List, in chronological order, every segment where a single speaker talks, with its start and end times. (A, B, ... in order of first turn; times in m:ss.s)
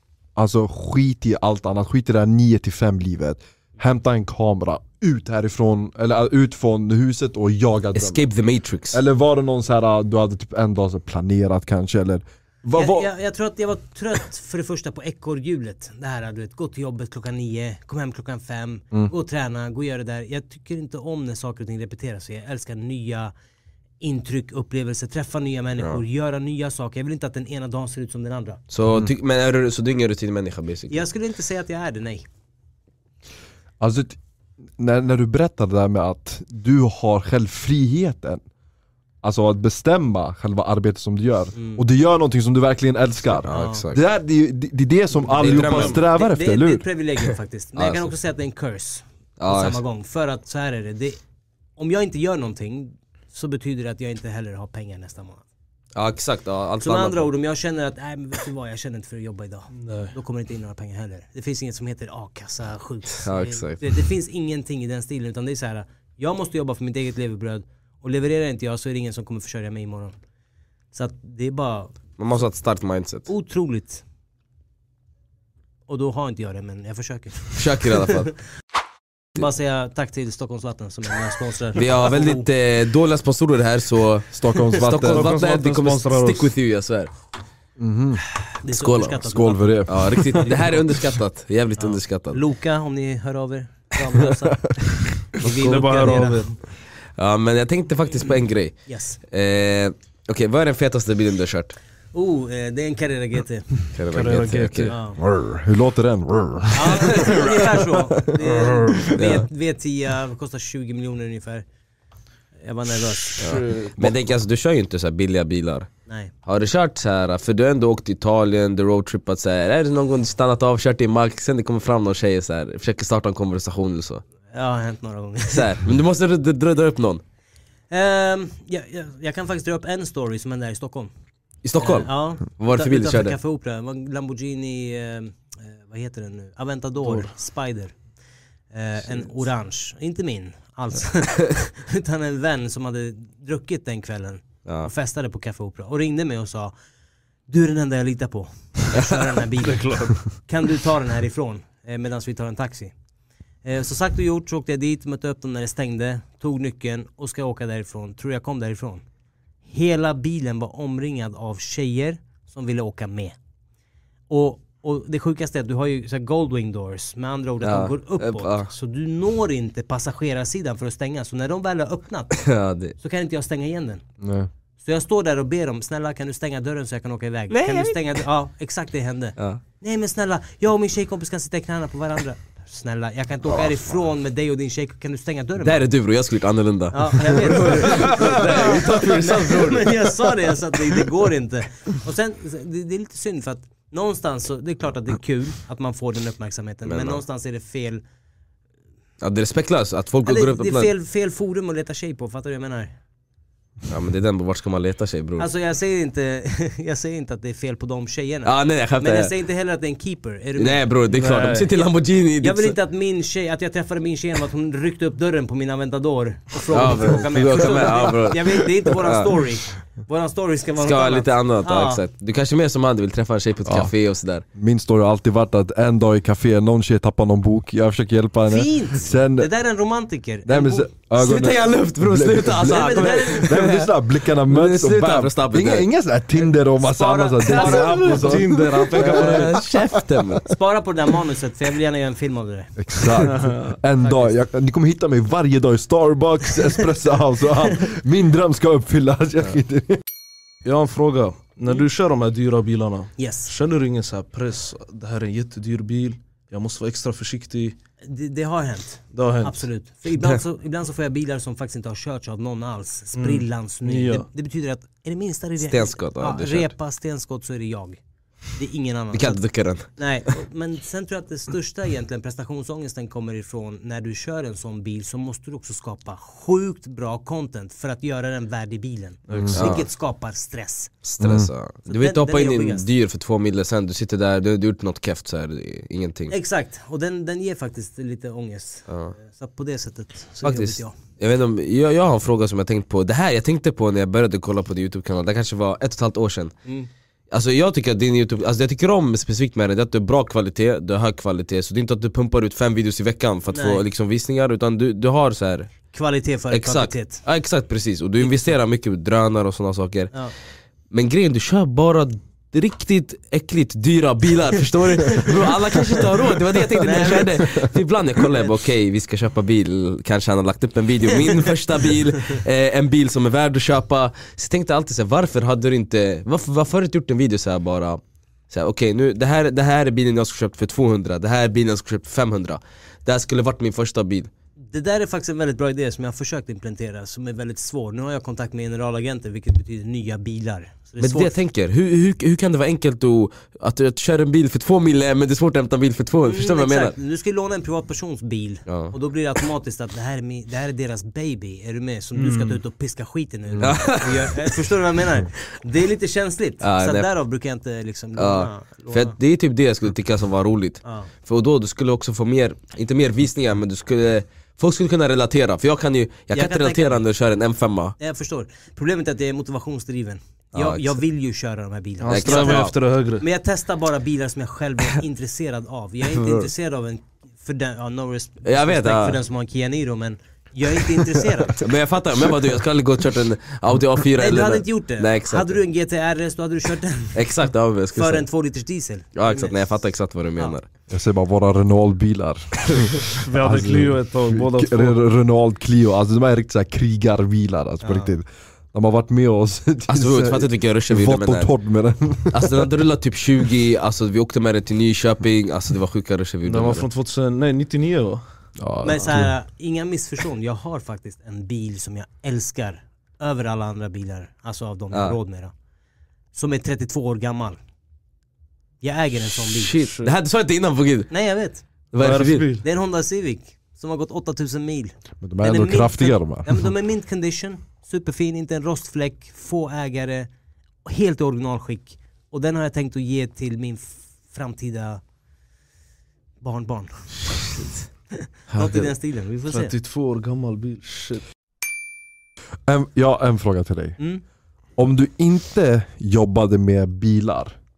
0:00.4-0:08.2 A
0:08.0-0:09.0 B
0:08.9-0:13.1 A
0:12.8-0:23.3 C
0:24.0-0:28.6 C
0:28.7-0:31.0 B
0:30.9-0:32.3 C
0:33.8-0:34.2 A
0:34.8-0:38.4 A
0:39.2-0:46.8 A
0:41.6-0:41.8 C
0:43.5-0:44.0 B
0:43.5-0:43.8 C
0:45.3-0:46.0 B
0:45.5-0:51.2 C
0:47.8-0:48.1 B
0:49.4-0:49.8 B
0:51.8-0:55.4 C
0:56.0-0:57.3 B
0:56.8-1:10.1 C
0:59.7-1:00.1 D
1:03.2-1:04.0 B
1:10.9-1:12.0 C
1:12.2-1:13.3 B
1:13.3-1:14.0 C
1:15.9-1:18.2 C
1:17.6-1:18.3 B
1:19.4-1:22.5 C
1:21.8-1:27.1 B
1:24.3-1:25.3 A
1:25.1-1:26.5 D
1:27.8-1:28.2 A
1:28.6-1:30.5 C
1:28.7-1:29.2 B
1:29.2-1:30.2 A
1:29.9-1:32.4 B
1:31.8-1:36.6 C
1:35.6-1:36.5 D
1:37.2-1:41.8 B
1:38.9-1:39.2 C
1:42.1-1:43.8 C
1:43.9-1:45.0 B
1:44.1-1:45.0 D
1:44.9-1:45.2 C
1:45.2-1:48.3 A
1:46.7-1:51.6 C
1:48.5-1:49.5 B
1:52.6-1:53.6 C
1:53.4-1:53.9 D
1:53.4-1:55.9 B
1:56.1-1:56.3 C
1:56.4-2:04.2 B
2:04.5-2:05.6 C
2:05.5-2:07.2 B
2:07.9-2:11.1 C
2:11.6-2:13.4 B
2:11.8-2:18.0 C
2:17.0-2:17.3 D
2:18.7-2:26.7 C
2:27.5-2:32.9 C
2:29.6-2:30.2 D
2:33.6-2:39.0 C
2:39.7-2:43.4 C
2:44.3-2:52.4 C
2:47.6-2:48.7 B
2:52.3-2:53.0 B
2:53.0-2:54.0 C
2:54.2-2:54.5 A
2:54.8-3:05.8 C
2:57.5-2:58.0 B
3:05.6-3:10.2 B
3:06.9-3:18.0 C
3:16.9-3:17.2 B
3:19.2-3:20.9 B
3:20.2-3:22.9 C
3:23.9-3:25.5 B
3:25.4-3:30.8 C
3:28.4-3:29.3 B
3:30.6-3:32.8 B
3:31.1-3:31.7 D
3:32.4-3:42.0 C
3:36.7-3:39.3 B
3:40.8-3:44.4 B
3:43.6-3:43.9 A
3:44.6-3:49.5 A
3:48.5-3:50.9 C
3:50.5-3:59.4 A
3:51.2-3:55.9 B
3:52.6-3:53.6 C
3:56.8-3:58.2 C
3:57.4-4:00.5 B
3:57.7-3:59.7 D
4:00.5-4:03.3 C
4:02.8-4:10.0 A
4:03.2-4:03.8 D
4:04.1-4:04.3 C
4:10.6-4:17.8 D
4:13.2-4:13.5 C
4:18.0-4:28.0 C
4:19.1-4:19.6 D
4:23.2-4:24.3 D
4:25.6-4:26.7 B
4:28.5-4:40.9 C
4:29.1-4:30.4 B
4:39.3-4:39.7 A
4:39.5-4:39.8 B
4:41.0-4:46.3 B
4:41.2-4:41.5 A
4:41.9-4:42.9 C
4:46.3-4:51.0 C
4:48.9-4:49.2 B
4:50.4-4:56.5 B
4:57.3-5:05.7 B
5:03.5-5:03.8 C
5:05.9-5:07.2 C
5:06.5-5:10.2 B
5:10.9-5:34.3 B
5:16.8-5:17.4 C
5:34.7-5:41.4 C
5:41.0-5:46.9 B
5:46.2-5:59.2 C
5:48.7-5:48.9 B
5:52.2-5:52.6 D
5:53.6-5:54.5 B
5:56.6-5:57.1 B
5:58.2-6:08.0 B
6:06.3-6:07.1 C
6:08.0-6:21.7 C
6:10.5-6:11.0 B
6:12.0-6:13.2 D
6:12.1-6:12.7 B
6:18.4-6:19.2 B
6:21.6-6:25.6 B
6:24.2-6:27.2 C
6:27.1-6:28.3 B
6:27.9-6:29.7 C
6:29.2-6:30.7 B
6:30.9-6:42.7 A
6:33.2-6:35.0 D
6:37.8-6:38.1 C
6:39.9-6:41.5 B
6:42.3-6:46.9 B
6:46.4-6:48.5 D
6:48.6-6:49.3 A
6:48.8-6:55.5 C
6:54.9-6:55.2 B
6:56.3-6:57.6 C
6:58.8-6:59.9 C
6:59.4-7:01.1 B
7:01.1-7:01.6 C
7:01.9-7:02.6 B
7:02.0-7:02.6 D
7:02.6-7:10.3 C
7:05.2-7:06.6 A
7:10.8-7:15.0 C
7:16.4-7:17.3 C
7:17.3-7:17.8 B
7:18.2-7:19.7 C
7:18.5-7:18.9 B
7:19.5-7:21.2 D
7:22.7-7:24.0 A
7:24.8-7:27.6 A